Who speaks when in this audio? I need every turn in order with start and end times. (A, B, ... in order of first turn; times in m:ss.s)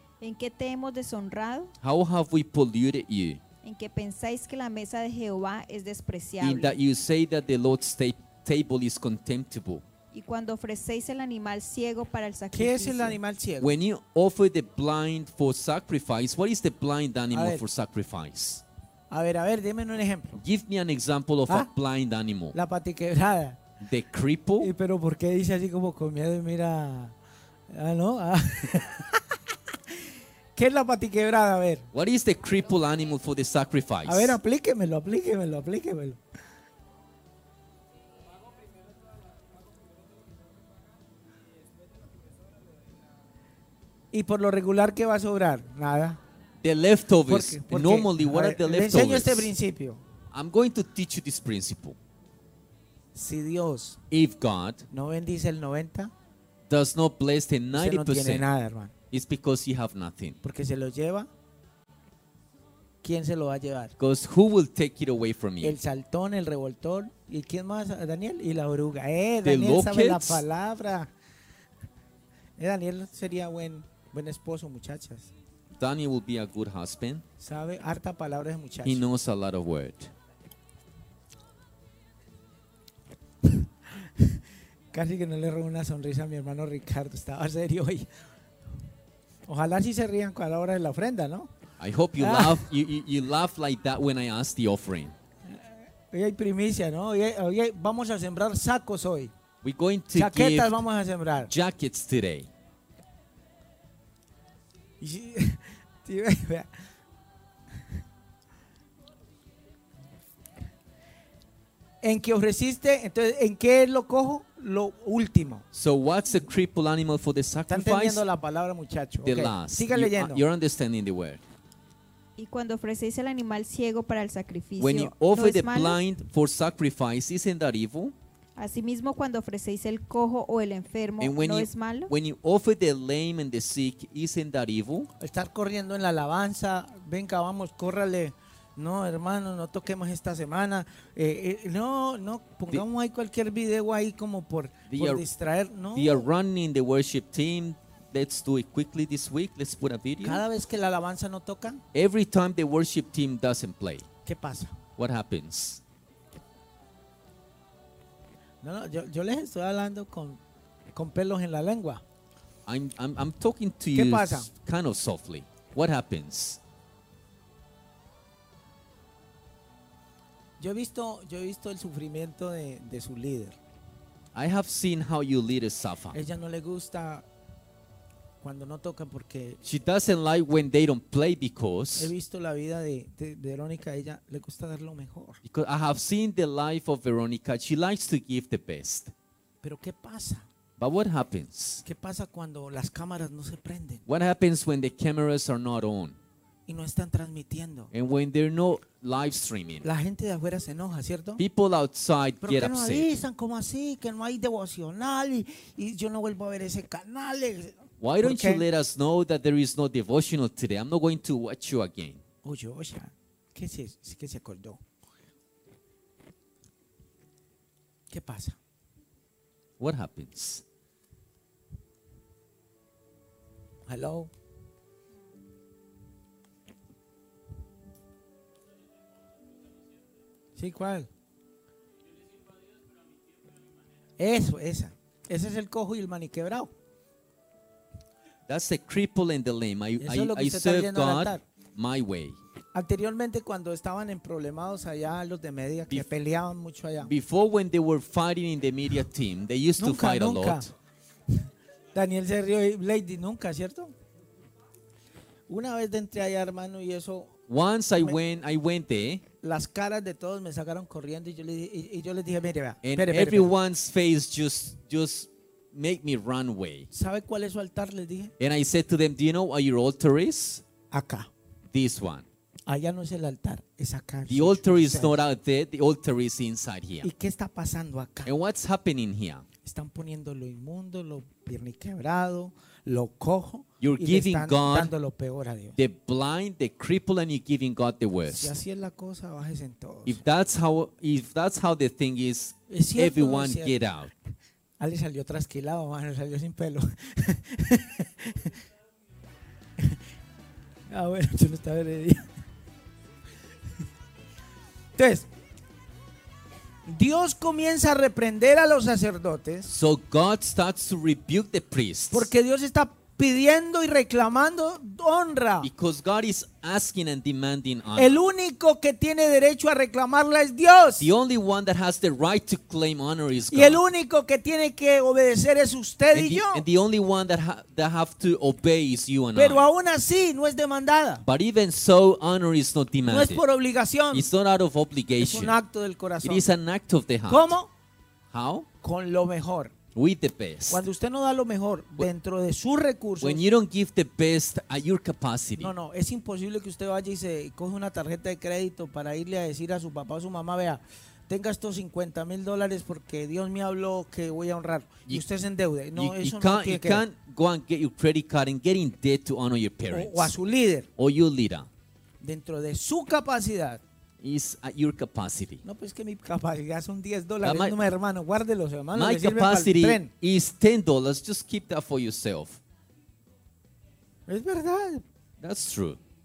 0:00.2-0:01.7 A
0:01.8-0:03.4 B
0:03.6-0:06.7 A
0:06.4-0:09.8 B
0:10.1-0:13.2 A
0:12.5-0:13.8 C
0:13.6-0:18.6 B
0:17.3-0:17.6 C
0:19.1-0:20.4 C
0:20.4-0:22.6 B
0:22.5-0:23.6 C
0:23.8-0:24.7 B
0:24.6-0:27.2 C
0:27.7-0:29.4 C
0:30.6-0:31.9 C
0:31.9-0:34.4 B
0:34.0-0:36.2 C
0:44.1-0:46.2 C
0:46.6-0:49.5 B
0:47.3-0:50.0 C
0:50.3-0:52.0 B
0:53.1-0:54.0 C
0:54.1-0:54.9 B
0:54.9-0:56.1 C
0:56.7-0:58.5 B
0:57.7-0:58.9 C
0:59.1-1:00.4 B
1:00.4-1:01.3 C
1:03.0-1:04.0 C
1:04.0-1:05.8 B
1:05.6-1:11.1 C
1:09.4-1:10.4 B
1:12.6-1:15.3 C
1:15.8-1:17.2 B
1:17.4-1:19.0 C
1:18.8-1:20.1 B
1:23.4-1:24.4 C
1:24.9-1:28.1 C
1:29.5-1:31.5 C
1:31.8-1:35.2 B
1:32.2-1:32.7 C
1:36.1-1:39.3 C
1:39.6-1:40.8 B
1:40.1-1:41.5 C
1:41.4-1:42.5 B
1:45.0-1:46.7 C
1:52.0-1:55.6 C
1:55.7-1:58.3 B
1:57.7-2:00.4 C
1:59.2-2:01.4 B
2:02.4-2:06.0 A
2:04.8-2:08.1 B
2:08.6-2:12.1 A
2:11.2-2:15.1 B
2:15.2-2:26.2 C
2:24.9-2:25.2 B
2:25.9-2:30.4 B
2:30.2-2:31.8 C
2:31.9-2:34.1 B
2:34.2-2:34.8 C
2:35.0-2:35.8 B
2:38.6-2:40.4 C
2:40.9-2:42.0 C
2:42.7-2:46.6 B
2:43.9-2:44.5 C
2:50.6-2:53.6 C
2:54.3-2:56.2 B
2:56.1-2:57.2 C
2:58.4-2:59.6 C
2:59.6-3:02.1 B
3:02.0-3:05.4 C
3:05.4-3:09.1 B
3:09.6-3:10.5 C
3:10.8-3:11.8 B
3:11.8-3:14.0 C
3:14.1-3:16.2 B
3:16.7-3:17.9 C
3:17.9-3:19.9 B
3:19.8-3:21.4 C
3:21.4-3:23.1 B
3:22.4-3:28.6 C
3:28.0-3:32.2 B
3:32.4-3:34.8 C
3:38.1-3:38.6 C
3:39.8-3:40.6 B
3:43.9-3:44.3 C
3:50.6-3:51.1 C
3:54.2-3:56.7 C
3:58.5-4:02.4 B
4:00.0-4:01.4 C
4:02.7-4:07.1 C
4:07.0-4:10.7 B
4:09.8-4:10.7 C
4:11.3-4:13.9 C
4:15.5-4:17.3 C
4:17.5-4:19.2 B
4:19.4-4:23.5 C
4:22.8-4:26.9 B
4:26.9-4:28.3 C
4:28.4-4:30.6 B
4:30.9-4:31.3 C
4:31.7-4:32.3 B
4:32.7-4:35.2 C
4:34.3-4:37.1 B
4:37.0-4:38.3 C
4:38.2-4:39.5 B
4:39.6-4:45.8 C
4:43.8-4:44.9 B
4:45.8-4:48.6 B
4:48.3-4:50.2 C
4:50.1-4:54.1 B
4:52.7-4:53.8 C
4:54.8-4:58.5 C
5:00.9-5:02.3 C
5:05.0-5:05.3 C
5:06.9-5:09.7 C
5:09.7-5:12.3 B
5:12.1-5:15.7 C
5:15.6-5:18.2 B
5:18.0-5:21.1 C
5:21.0-5:23.8 B
5:23.5-5:26.6 C
5:26.1-5:29.6 B
5:29.4-5:31.2 C
5:31.2-5:33.4 B
5:33.0-5:34.3 C
5:34.1-5:35.6 B
5:35.2-5:36.5 C
5:36.2-5:37.6 B
5:37.3-5:37.7 C
5:38.3-5:38.7 B
5:38.8-5:39.7 C
5:39.9-5:40.9 B
5:40.7-5:43.4 C
5:43.2-5:45.7 B
5:45.6-5:57.0 C
5:56.0-6:00.3 B
5:59.9-6:00.9 C
6:01.0-6:01.7 B
6:02.2-6:03.8 C
6:04.2-6:05.6 B
6:05.6-6:10.1 C
6:07.4-6:07.8 B
6:09.0-6:12.6 B
6:14.3-6:15.0 C
6:15.4-6:16.0 B